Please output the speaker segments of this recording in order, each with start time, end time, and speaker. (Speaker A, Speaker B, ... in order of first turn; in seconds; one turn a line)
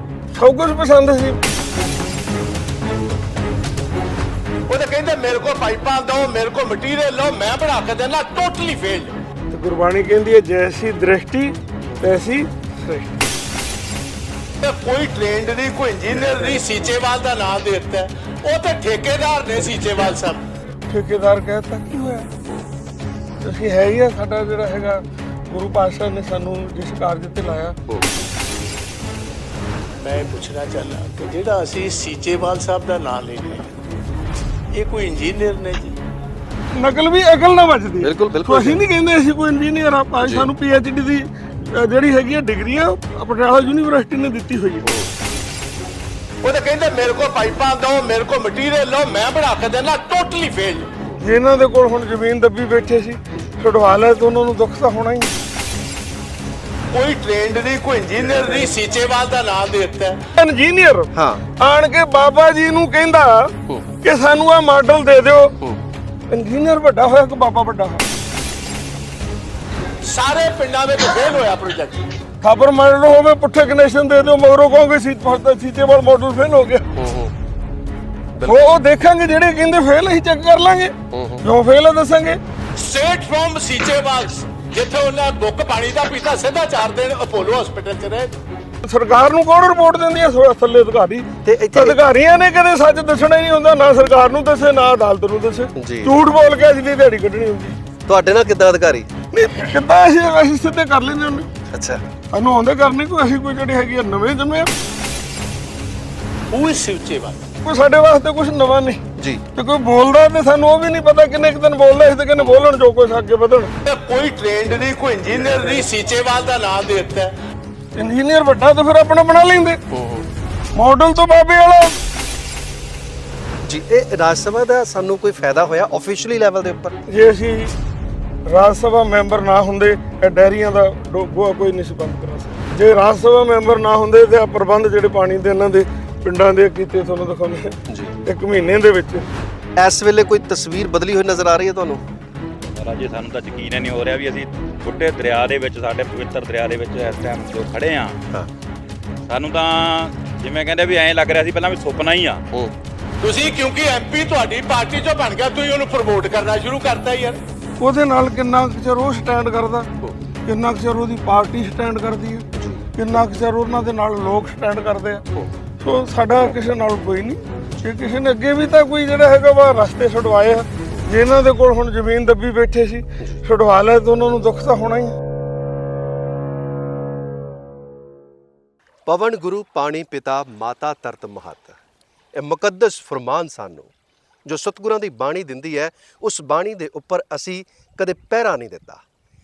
Speaker A: 0.3-1.4
Speaker B: 4.7-9.2
Speaker A: 9.5-13.2
Speaker B: 14.6-20.4
Speaker A: 20.9-22.3
Speaker A: 23.4-27.8
Speaker B: 30.0-33.8
Speaker B: 34.7-36.0
Speaker A: 36.8-44.9
Speaker C: 38.0-38.8
Speaker C: 40.2-40.5
Speaker C: 44.8-45.1
Speaker B: 46.4-50.9
Speaker A: 51.2-55.3
Speaker B: 56.9-60.2
Speaker A: 60.4-65.6
Speaker C: 61.1-61.4
Speaker A: 66.3-68.0
Speaker B: 70.0-72.0
Speaker A: 72.4-76.8
Speaker C: 76.9-77.3
Speaker C: 78.3-78.6
Speaker A: 78.4-82.4
Speaker C: 81.1-81.4
Speaker B: 82.8-88.4
Speaker A: 88.8-97.8
Speaker C: 91.4-92.0
Speaker C: 95.7-96.2
Speaker C: 98.0-99.1
Speaker A: 99.3-101.5
Speaker C: 101.7-102.0
Speaker A: 102.3-104.7
Speaker B: 106.5-107.4
Speaker A: 107.6-109.0
Speaker C: 109.2-109.4
Speaker A: 109.5-113.7
Speaker B: 113.8-117.3
Speaker A: 118.0-119.8
Speaker C: 119.9-120.3
Speaker A: 120.7-122.0
Speaker C: 123.6-127.0
Speaker A: 127.1-127.7
Speaker A: 128.5-139.2
Speaker C: 137.9-138.1
Speaker C: 139.8-142.0
Speaker D: 142.7-148.2
Speaker D: 149.3-152.4
Speaker B: 153.2-157.4
Speaker A: 157.8-159.9
Speaker A: 160.4-165.2
Speaker C: 162.5-162.8
Speaker A: 165.8-175.1
Speaker C: 179.1-181.8
Speaker C: 182.3-183.9
Speaker C: 184.4-189.0